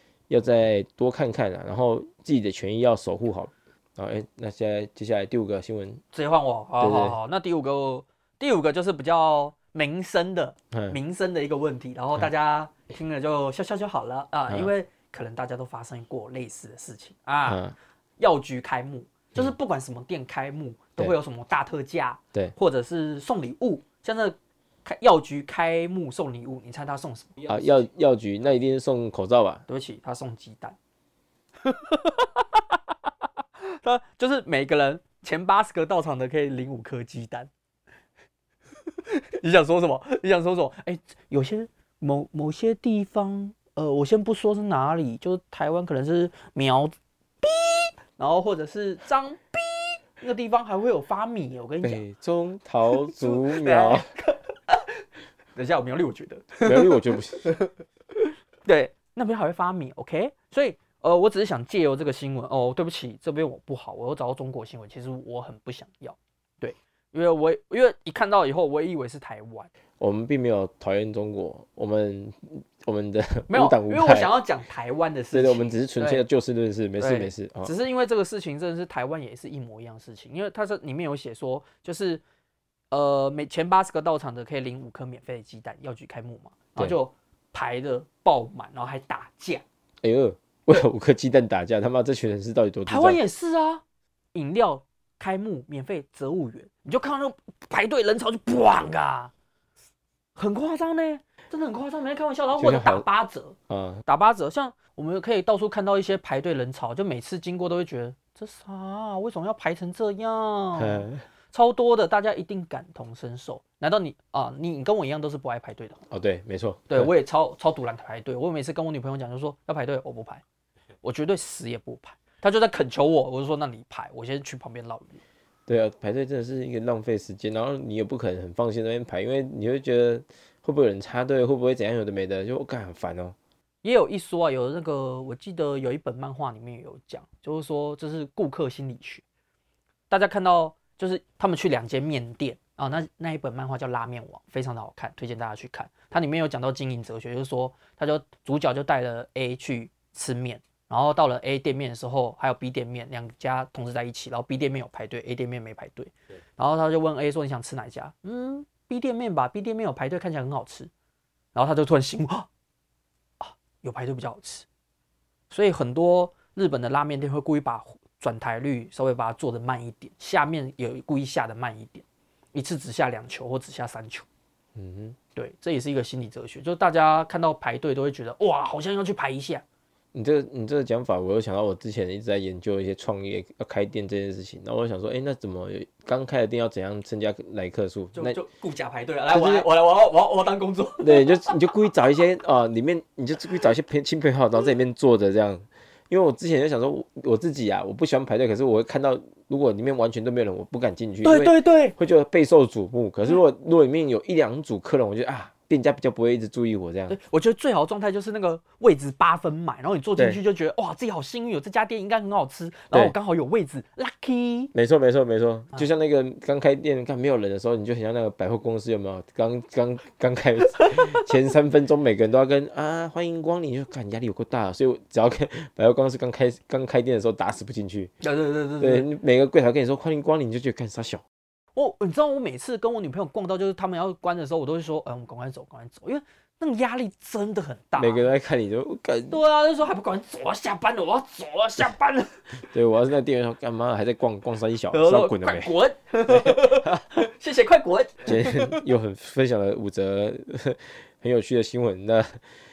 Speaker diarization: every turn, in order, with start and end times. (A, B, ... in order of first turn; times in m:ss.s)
0:00.3-0:06.0 A
0:06.1-0:17.6 B
0:06.8-0:07.2 A
0:10.7-0:11.0 A
0:17.4-0:17.7 A
0:18.2-0:27.6 B
0:27.4-0:29.6 A
0:29.7-0:30.8 B
0:31.6-0:32.8 B
0:33.6-0:37.5 B
0:39.0-0:52.0 B
0:51.8-0:54.1 A
0:53.1-0:57.7 B
0:56.6-0:57.6 A
0:58.6-1:09.7 B
1:10.0-1:14.3 A
1:13.5-1:16.2 B
1:15.3-1:17.7 A
1:17.0-1:22.2 B
1:22.9-1:29.6 B
1:30.0-1:33.2 A
1:32.8-1:33.8 B
1:34.3-1:39.3 B
1:40.4-1:56.0 B
1:42.6-1:43.0 A
1:43.7-1:44.0 A
1:50.8-1:51.2 A
1:56.1-1:57.1 A
1:56.9-2:00.4 B
2:01.0-2:05.2 B
2:05.7-2:13.3 A
2:13.8-2:19.2 B
2:20.1-2:40.9 B
2:41.5-2:42.5 B
2:43.4-2:44.6 B
2:45.5-2:54.2 B
2:54.8-2:55.2 A
2:55.3-2:59.6 B
3:00.1-3:08.4 A
3:08.1-3:11.4 B
3:09.3-3:09.7 A
3:11.0-3:27.2 A
3:21.2-3:21.9 B
3:27.1-3:34.7 B
3:34.7-3:48.1 A
3:48.2-3:49.1 B
3:48.8-3:51.2 A
3:51.7-3:58.3 B
3:58.0-3:59.4 A
3:59.3-4:02.6 B
4:02.6-4:05.7 A
4:04.9-4:08.8 B
4:06.3-4:06.7 A
4:08.2-4:12.4 A